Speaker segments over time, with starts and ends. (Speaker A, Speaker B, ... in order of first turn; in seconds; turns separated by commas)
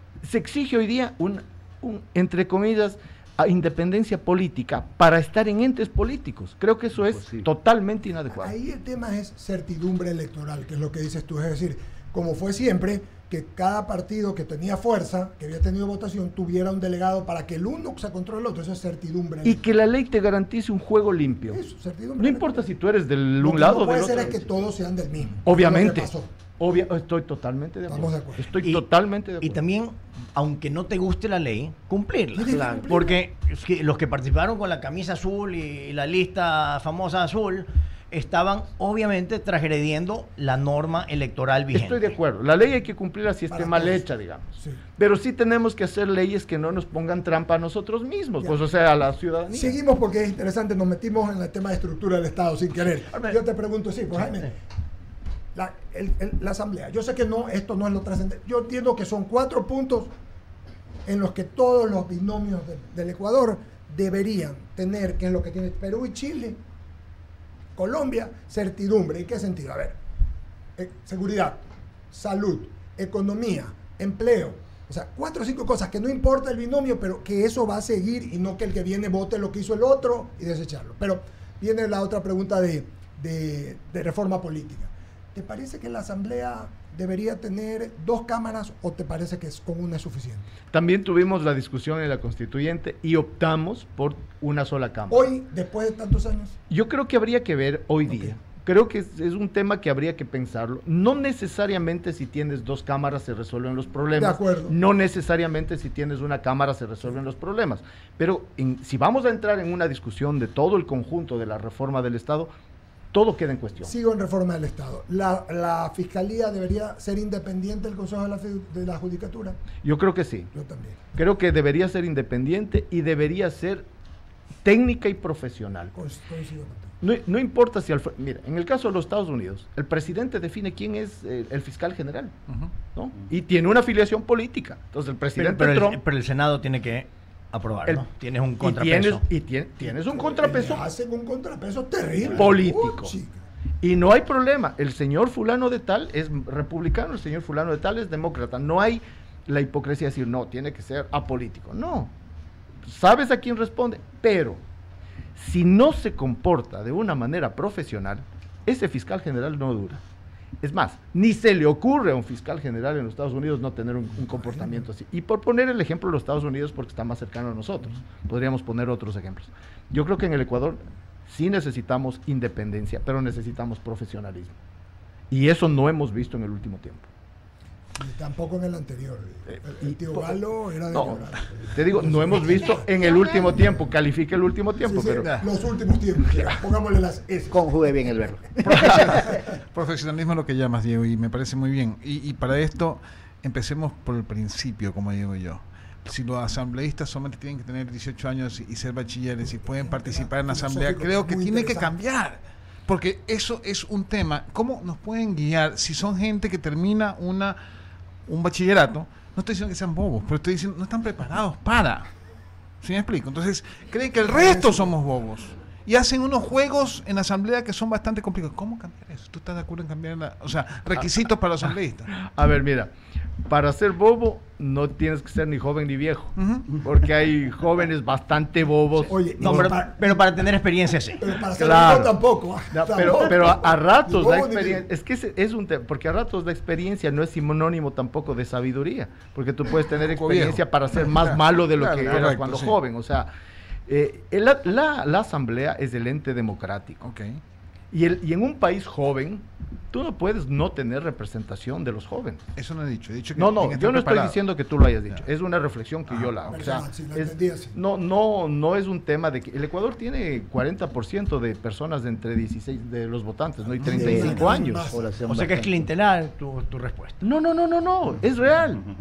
Speaker A: 0.2-8.5, Speaker B: 7.1-7.5, Speaker C: 8.3-19.6, Speaker A: 19.4-21.6, Speaker C: 21.5-22.6, Speaker A: 22.2-24.5, Speaker C: 23.4-26.3, Speaker A: 25.4-29.6, Speaker C: 27.9-28.5, Speaker D: 28.6-28.9, Speaker D: 29.4-42.1, Speaker C: 32.3-33.2, Speaker A: 41.7-49.8, Speaker C: 43.5-44.0, Speaker C: 49.5-54.5, Speaker D: 53.1-53.4, Speaker C: 55.5-60.1, Speaker C: 61.0-66.6, Speaker C: 67.7-70.0, Speaker C: 70.8-90.5, Speaker A: 90.7-95.3, Speaker C: 95.1-96.6, Speaker A: 96.7-112.5, Speaker C: 104.2-104.7, Speaker A: 113.1-113.9, Speaker C: 113.8-119.6, Speaker A: 119.8-120.5, Speaker C: 120.5-121.0, Speaker A: 121.1-123.8, Speaker A: 124.6-126.0, Speaker C: 125.9-126.9, Speaker A: 127.0-132.3, Speaker A: 132.9-136.0, Speaker D: 135.3-139.2, Speaker A: 138.6-140.8, Speaker C: 139.8-143.4, Speaker A: 142.2-143.1, Speaker A: 143.8-152.1, Speaker A: 152.8-154.6, Speaker A: 155.3-160.0, Speaker A: 160.6-174.6, Speaker C: 164.3-164.8, Speaker A: 175.3-177.1, Speaker C: 177.9-183.8, Speaker A: 179.5-185.3, Speaker C: 184.8-188.2, Speaker B: 187.5-189.3, Speaker E: 188.7-207.6, Speaker C: 188.7-189.4, Speaker C: 199.6-201.9, Speaker E: 208.2-212.1, Speaker E: 212.8-222.1, Speaker A: 222.2-222.9, Speaker A: 223.5-229.8, Speaker E: 226.3-226.7, Speaker C: 229.1-230.2, Speaker D: 229.4-231.2, Speaker C: 231.2-234.9, Speaker A: 231.6-232.1, Speaker A: 232.7-243.3, Speaker E: 240.0-242.8, Speaker A: 243.9-247.0, Speaker E: 247.0-247.4, Speaker A: 247.9-252.4, Speaker E: 252.6-254.4, Speaker A: 253.3-264.9, Speaker C: 256.5-257.8, Speaker C: 263.7-265.1, Speaker B: 263.9-265.9, Speaker D: 265.2-267.2, Speaker A: 267.2-268.9